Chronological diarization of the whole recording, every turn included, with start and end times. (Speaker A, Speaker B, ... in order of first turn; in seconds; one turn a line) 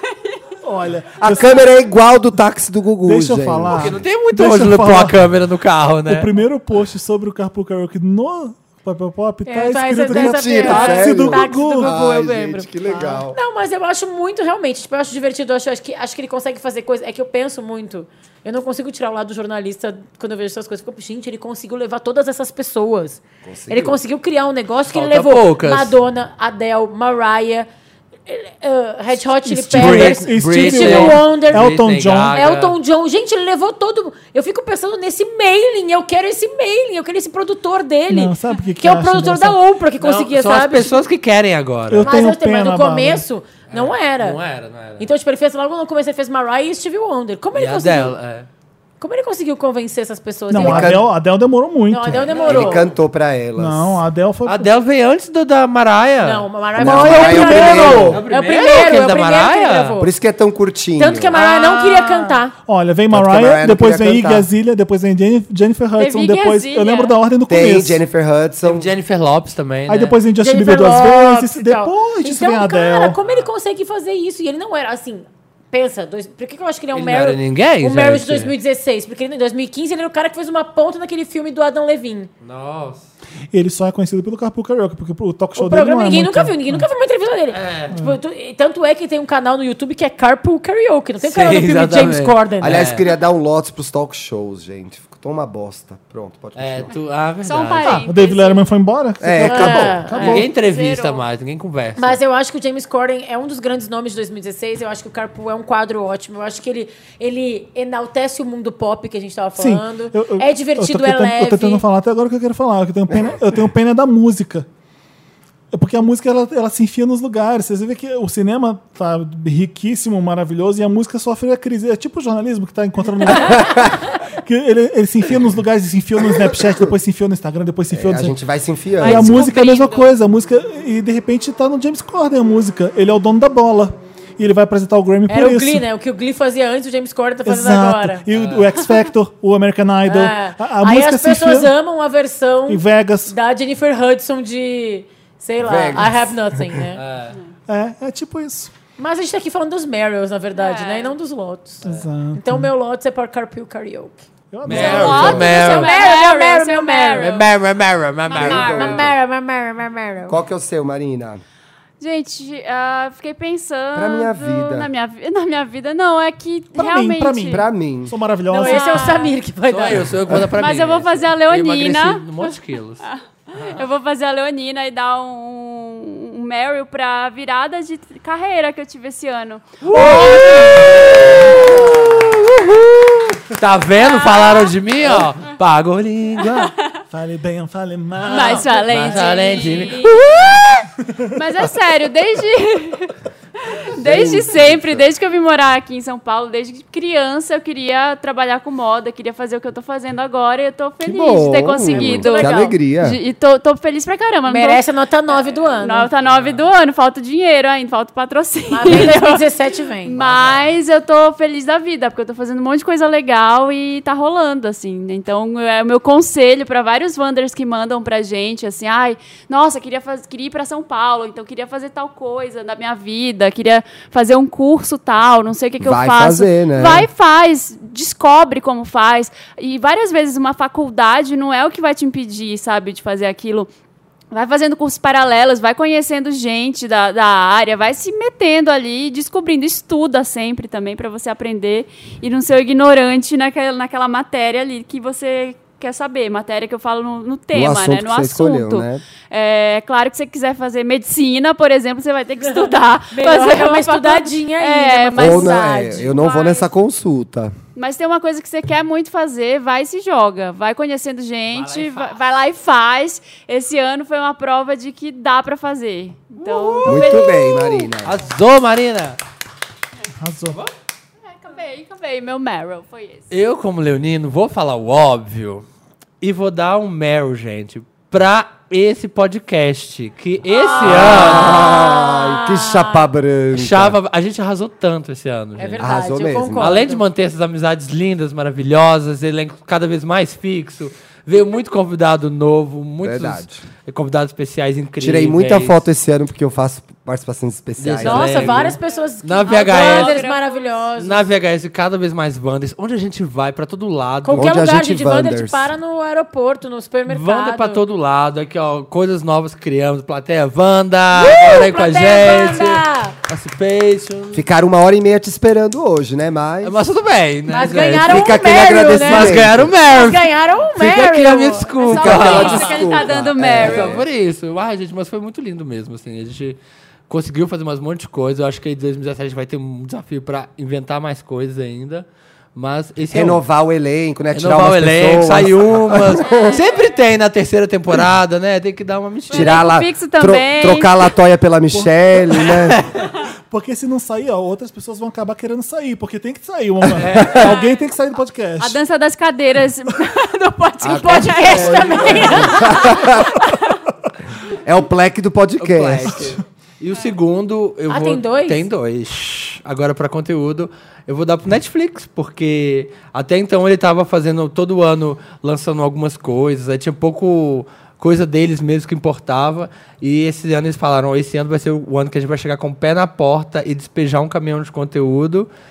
Speaker A: 0.6-1.7
Speaker B: 1.2-4.0
Speaker A: 3.0-5.3
Speaker C: 3.7-6.3
Speaker A: 6.0-11.9
Speaker D: 9.4-12.0
Speaker B: 10.1-13.4
Speaker C: 11.9-12.7
Speaker D: 12.7-27.7
Speaker B: 23.4-24.0
Speaker C: 24.9-25.9
Speaker D: 28.3-31.7
Speaker A: 29.4-32.4
Speaker C: 29.7-32.7
Speaker D: 32.3-41.0
Speaker A: 38.1-39.6
Speaker C: 40.0-42.1
Speaker A: 41.9-43.2
Speaker D: 42.0-44.4
Speaker C: 43.7-45.1
Speaker D: 45.0-48.1
Speaker C: 47.5-48.5
Speaker D: 49.0-51.0
Speaker A: 50.5-52.3
Speaker B: 50.6-51.0
Speaker D: 51.9-52.9
Speaker C: 52.3-52.7
Speaker B: 52.4-54.0
Speaker A: 53.6-54.7
Speaker C: 54.5-60.0
Speaker D: 56.2-60.1
Speaker B: 56.8-58.2
Speaker A: 57.1-58.2
Speaker B: 60.0-61.3
Speaker D: 61.0-62.5
Speaker C: 61.4-62.4
Speaker A: 62.6-68.0
Speaker B: 63.1-64.5
Speaker E: 66.0-67.1
Speaker B: 67.5-68.9
Speaker C: 68.6-70.2
Speaker A: 69.9-73.2
Speaker D: 70.4-82.3
Speaker C: 76.9-78.5
Speaker C: 82.4-83.0
Speaker A: 83.5-86.8
Speaker D: 85.5-92.8
Speaker C: 87.5-87.9
Speaker C: 91.2-93.0
Speaker B: 92.6-96.9
Speaker C: 96.5-98.0
Speaker E: 97.4-98.7
Speaker A: 97.8-100.5
Speaker B: 99.2-100.1
Speaker D: 99.4-100.4
Speaker E: 100.2-101.2
Speaker C: 100.2-102.2
Speaker D: 102.0-111.8
Speaker A: 109.6-114.7
Speaker B: 113.1-113.4
Speaker A: 115.7-128.4
Speaker B: 123.3-124.0
Speaker B: 126.4-126.8
Speaker B: 127.9-129.5
Speaker A: 129.0-135.8
Speaker E: 129.0-130.1
Speaker D: 135.3-138.2
Speaker A: 137.4-141.7
Speaker C: 138.3-138.7
Speaker D: 140.1-147.0
Speaker A: 142.7-143.3
Speaker B: 145.6-146.4
Speaker C: 147.0-147.3
Speaker A: 147.7-148.7
Speaker D: 149.0-154.2
Speaker E: 150.5-151.1
Speaker A: 151.8-152.7
Speaker A: 154.5-155.5
Speaker C: 154.6-155.9
Speaker E: 154.7-157.4
Speaker D: 154.8-157.4
Speaker C: 157.2-159.0
Speaker E: 158.2-159.0
Speaker B: 158.3-159.1
Speaker D: 158.4-160.4
Speaker B: 160.3-161.4
Speaker E: 162.0-167.6
Speaker B: 163.9-164.9
Speaker A: 166.7-169.1
Speaker B: 167.5-168.1
Speaker D: 168.5-170.1
Speaker E: 168.6-169.3
Speaker C: 169.7-173.0
Speaker E: 170.6-181.7
Speaker C: 179.8-186.7
Speaker E: 184.0-184.7
Speaker E: 186.6-187.0
Speaker A: 187.1-189.2
Speaker E: 188.3-190.3
Speaker C: 188.3-190.8
Speaker E: 191.3-193.1
Speaker E: 193.7-204.8
Speaker B: 194.0-195.0
Speaker B: 201.0-203.2
Speaker D: 201.9-202.8
Speaker D: 204.5-206.1
Speaker E: 205.8-209.4
Speaker C: 206.3-206.6
Speaker D: 208.7-210.2
Speaker E: 210.0-233.7
Speaker C: 210.2-210.6
Speaker B: 225.8-227.1
Speaker E: 234.3-256.7
Speaker B: 247.5-249.0
Speaker D: 252.4-256.1
Speaker B: 255.2-257.6
Speaker E: 257.8-267.9
Speaker C: 261.5-262.1
Speaker C: 266.4-267.2
Speaker B: 266.8-268.2
Speaker C: 268.0-269.2
Speaker A: 270.2-270.6
Speaker E: 271.2-273.3
Speaker C: 273.3-275.6
Speaker C: 276.2-281.7
Speaker D: 280.5-283.1
Speaker B: 280.8-283.9
Speaker C: 283.5-285.9
Speaker D: 285.6-287.0
Speaker B: 285.8-286.8
Speaker C: 286.6-295.8
Speaker B: 293.0-293.6
Speaker B: 295.0-298.7
Speaker C: 297.8-300.2
Speaker D: 298.0-301.2
Speaker E: 298.9-300.8
Speaker C: 301.0-304.5
Speaker D: 304.2-307.8
Speaker B: 304.3-305.7
Speaker C: 307.1-314.4
Speaker D: 311.1-313.1
Speaker B: 314.3-316.8
Speaker C: 316.6-326.6
Speaker D: 317.5-322.5
Speaker B: 317.9-319.7
Speaker E: 321.8-324.0
Speaker B: 321.9-324.0
Speaker C: 327.1-333.4
Speaker B: 333.1-336.6
Speaker C: 334.3-339.6
Speaker E: 336.2-336.8
Speaker E: 339.3-341.1
Speaker B: 339.3-342.8
Speaker A: 341.7-342.4
Speaker C: 342.5-342.8
Speaker A: 343.5-348.8
Speaker C: 346.9-347.4
Speaker E: 348.6-353.6
Speaker D: 350.3-353.0
Speaker B: 350.8-353.4
Speaker C: 352.1-352.3
Speaker B: 354.6-356.4
Speaker C: 355.6-375.5
Speaker D: 357.9-358.6